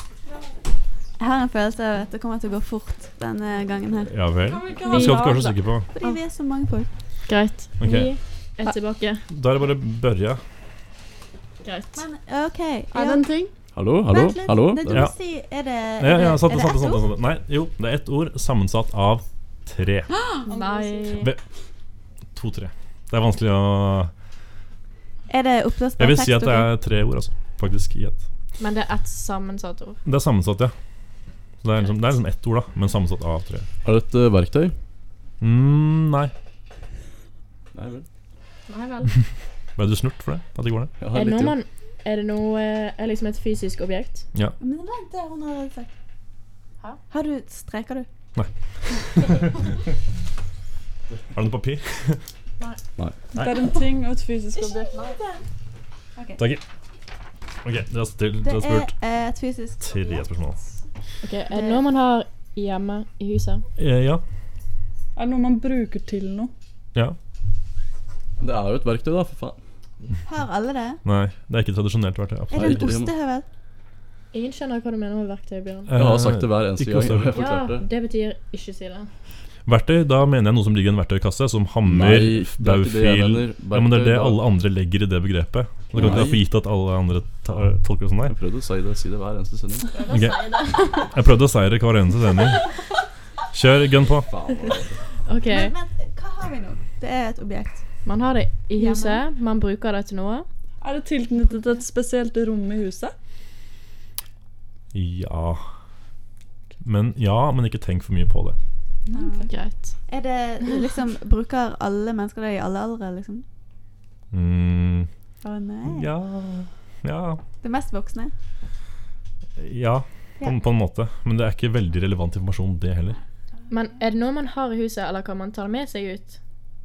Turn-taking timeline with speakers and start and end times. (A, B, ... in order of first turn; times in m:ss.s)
0:01.2-0:04.1 A
0:04.1-0:05.9 B
0:04.4-0:05.6 C
0:04.8-0:05.5 D
0:05.9-0:06.9 A
0:07.3-0:09.2 D
0:07.8-0:08.1 B
0:09.3-0:10.4 B
0:11.6-0:12.0 D
0:12.0-0:13.3 A
0:12.9-0:13.5 D
0:13.8-0:15.1 E
0:14.1-0:17.1 A
0:14.9-0:15.2 B
0:16.0-0:20.1 B
0:20.1-0:20.5 A
0:20.5-0:21.3 C
0:20.5-0:21.3 D
0:22.4-0:24.1 B
0:25.3-0:26.7 A
0:26.0-0:28.2 B
0:28.6-0:30.0 D
0:30.0-0:30.7 B
0:31.6-0:33.7 B
0:33.8-0:34.7 E
0:35.4-0:36.3 B
0:37.7-0:38.1 E
0:38.7-0:39.1 D
0:39.8-0:40.9 B
0:41.0-0:41.6 E
0:41.1-0:44.2 D
0:44.6-0:45.9 A
0:47.1-0:48.1 A
0:48.4-0:49.6 B
0:51.3-0:52.2 B
0:53.3-0:55.2 C
0:54.6-0:55.4 A
0:56.2-0:56.4 A
0:57.6-0:58.9 B
0:58.4-1:00.2 A
0:59.8-1:00.6 B
1:01.2-1:03.6 D
1:01.5-1:01.8 A
1:03.8-1:04.2 B
1:05.2-1:06.5 C
1:08.4-1:09.6 E
1:10.2-1:11.0 A
1:11.0-1:12.9 B
1:12.5-1:13.5 A
1:12.5-1:13.1 E
1:14.3-1:15.9 D
1:15.9-1:17.4 B
1:15.9-1:17.9 E
1:17.3-1:19.1 D
1:19.7-1:28.4 B
1:21.8-1:24.5 E
1:25.9-1:26.4 E
1:28.2-1:29.9 E
1:29.9-1:30.8 C
1:29.9-1:31.1 D
1:30.1-1:32.7 B
1:33.5-1:34.3 B
1:34.3-1:34.9 E
1:35.3-1:35.8 D
1:35.5-1:37.8 A
1:38.0-1:40.5 D
1:38.8-1:39.2 A
1:40.8-1:43.2 C
1:44.9-1:45.7 B
1:46.8-1:48.6 B
1:49.1-1:49.5 C
1:49.1-1:53.4 A
1:49.5-1:50.0 D
1:54.3-1:55.1 B
1:55.4-1:56.1 A
1:55.9-1:57.4 B
1:57.6-1:58.3 A
1:59.6-2:03.2 B
2:03.7-2:06.4 D